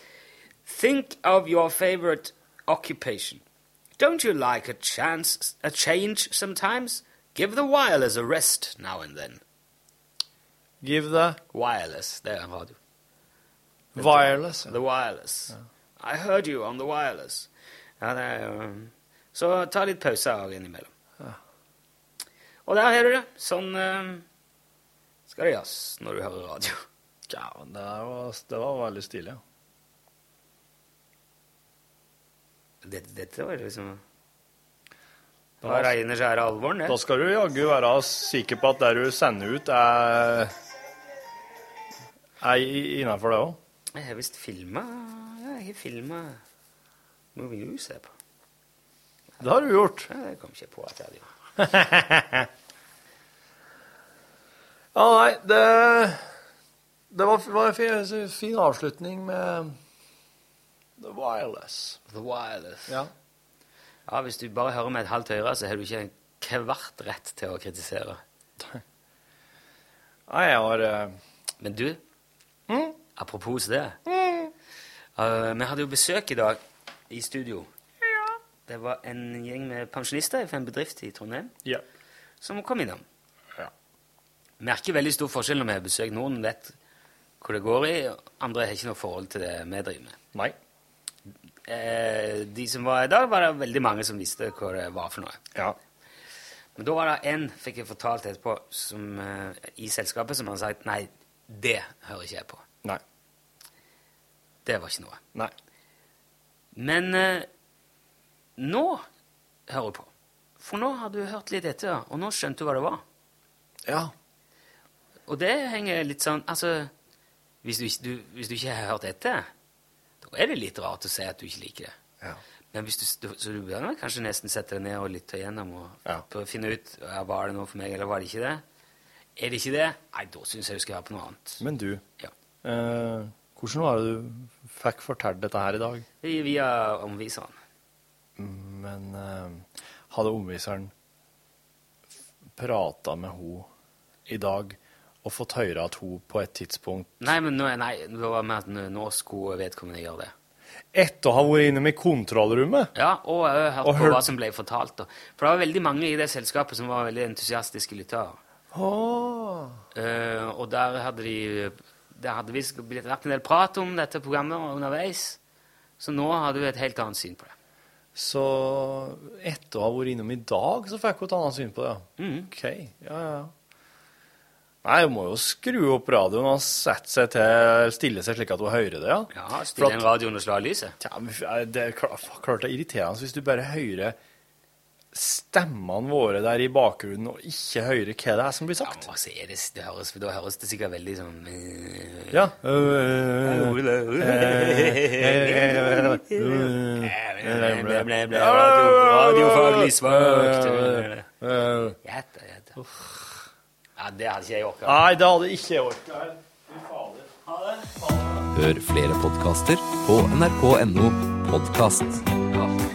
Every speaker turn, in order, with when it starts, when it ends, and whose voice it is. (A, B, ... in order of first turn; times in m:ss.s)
0:00.7-0:03.4 A
0:04.0-0:09.4 A
0:10.8-0:11.4 B
0:11.5-0:12.8 A
0:14.0-0:14.7 B
0:14.0-0:17.5 A
0:18.0-0:20.9 A
0:22.7-0:24.3 A
0:25.3-0:26.8 A
0:27.3-0:29.4 B
0:32.8-0:34.0 A
0:35.6-0:35.9 B
0:35.6-0:37.0 A
0:36.9-0:40.5 B
0:42.4-0:43.6 B
0:43.9-0:46.4 A
0:47.4-0:48.1 A
0:49.4-0:50.1 B
0:50.1-0:51.3 A
0:51.6-0:52.5 B
0:55.0-0:56.2 B
0:57.1-0:59.8 B
1:01.0-1:02.0 B
1:02.1-1:03.0 A
1:04.1-1:08.2 A
1:10.3-1:11.2 B
1:11.6-1:12.0 A
1:12.7-1:13.0 B
1:13.2-1:14.0 A
1:14.1-1:14.5 B
1:15.2-1:16.6 A
1:17.1-1:17.7 A
1:18.7-1:21.6 A
1:22.4-1:23.0 A
1:24.6-1:26.8 A
1:27.4-1:30.2 A
1:31.7-1:35.4 A
1:36.8-1:42.6 A
1:44.6-1:45.2 A
1:46.7-1:47.5 A
1:48.6-1:49.0 A
1:49.7-1:53.0 A
1:53.9-1:54.1 B
1:55.3-1:56.9 A
1:57.6-1:59.5 A
2:00.2-2:02.0 A
2:02.7-2:08.6 A
2:09.4-2:11.6 A
2:11.6-2:12.0 B
2:12.6-2:16.0 B
2:16.2-2:17.6 A
2:18.4-2:20.9 B
2:22.6-2:23.7 B
2:24.3-2:27.3 B
2:27.2-2:30.3 A
2:30.9-2:32.9 B
2:33.0-2:38.4 A
2:33.8-2:34.2 B
2:38.7-2:39.8 B
2:40.0-2:45.4 A
2:46.0-2:47.5 A
2:48.2-2:53.5 B
2:52.2-2:52.5 A
2:54.8-3:00.1 B
2:59.3-3:01.0 A
3:01.0-3:04.2 B
3:05.1-3:09.1 B
3:08.8-3:12.4 A
3:12.3-3:22.0 B
3:13.4-3:21.3 A
3:22.0-3:22.8 A
3:22.8-3:23.5 B
3:24.0-3:25.0 A
3:24.9-3:27.3 B
3:27.5-3:27.9 A
3:27.9-3:28.5 B
3:28.6-3:32.2 C